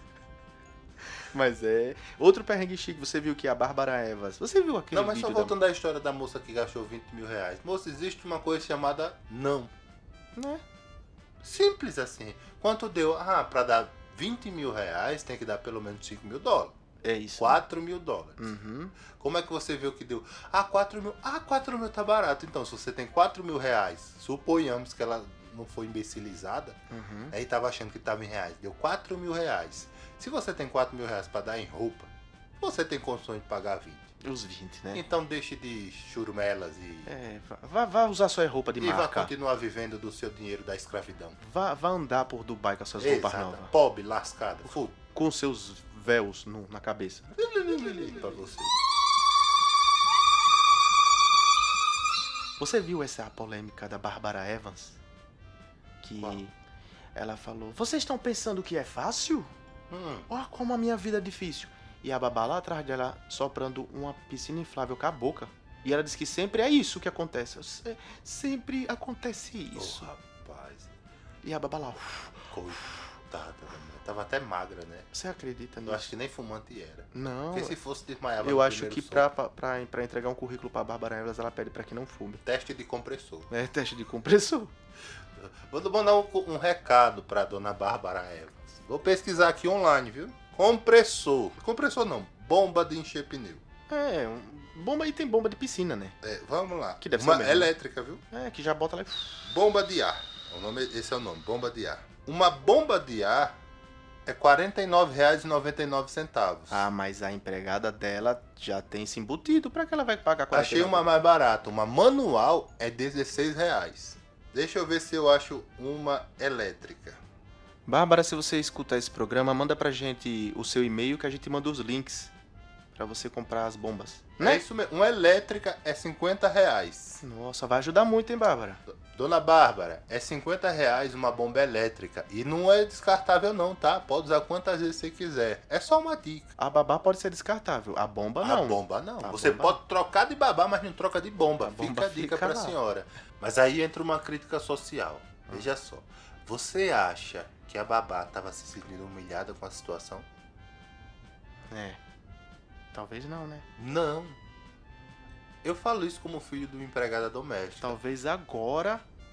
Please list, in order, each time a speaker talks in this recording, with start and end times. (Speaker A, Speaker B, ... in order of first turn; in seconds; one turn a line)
Speaker A: 1.2-5.5
Speaker B: 4.9-9.7
Speaker A: 10.4-10.6
Speaker B: 11.4-16.8
Speaker A: 17.0-17.6
Speaker B: 17.4-18.5
Speaker A: 18.4-18.9
Speaker B: 19.1-26.8
Speaker A: 26.9-27.3
Speaker B: 27.3-34.1
Speaker A: 34.2-35.0
Speaker B: 34.9-37.1
Speaker A: 37.1-39.3
Speaker B: 38.8-41.4
Speaker A: 41.4-43.7
Speaker B: 43.0-45.0
Speaker A: 45.1-47.3
Speaker B: 47.3-48.8
Speaker A: 52.6-55.0
Speaker A: 56.0-56.5
Speaker A: 57.1-59.5
Speaker B: 59.9-60.3
Speaker A: 60.3-70.1
Speaker B: 69.8-70.9
Speaker A: 71.4-72.5
Speaker B: 72.5-75.1
Speaker A: 75.1-76.1
Speaker B: 75.9-79.3
Speaker A: 77.1-77.8
Speaker A: 78.4-82.4
Speaker B: 82.4-83.5
Speaker A: 83.5-84.7
Speaker B: 85.3-93.6
Speaker A: 93.9-96.1
Speaker B: 96.2-98.2
Speaker A: 97.0-97.7
Speaker A: 98.3-99.5
Speaker B: 99.5-103.6
Speaker B: 104.3-106.9
Speaker A: 106.7-111.1
Speaker B: 110.5-117.2
Speaker A: 117.9-122.3
Speaker A: 123.0-124.6
Speaker B: 124.4-127.2
Speaker A: 127.2-128.8
Speaker B: 128.9-136.5
Speaker A: 136.6-139.8
Speaker B: 138.4-150.3
Speaker A: 141.6-142.8
Speaker A: 151.7-152.0
Speaker A: 152.9-153.7
Speaker B: 153.8-154.4
Speaker B: 155.6-158.0
Speaker A: 157.8-159.0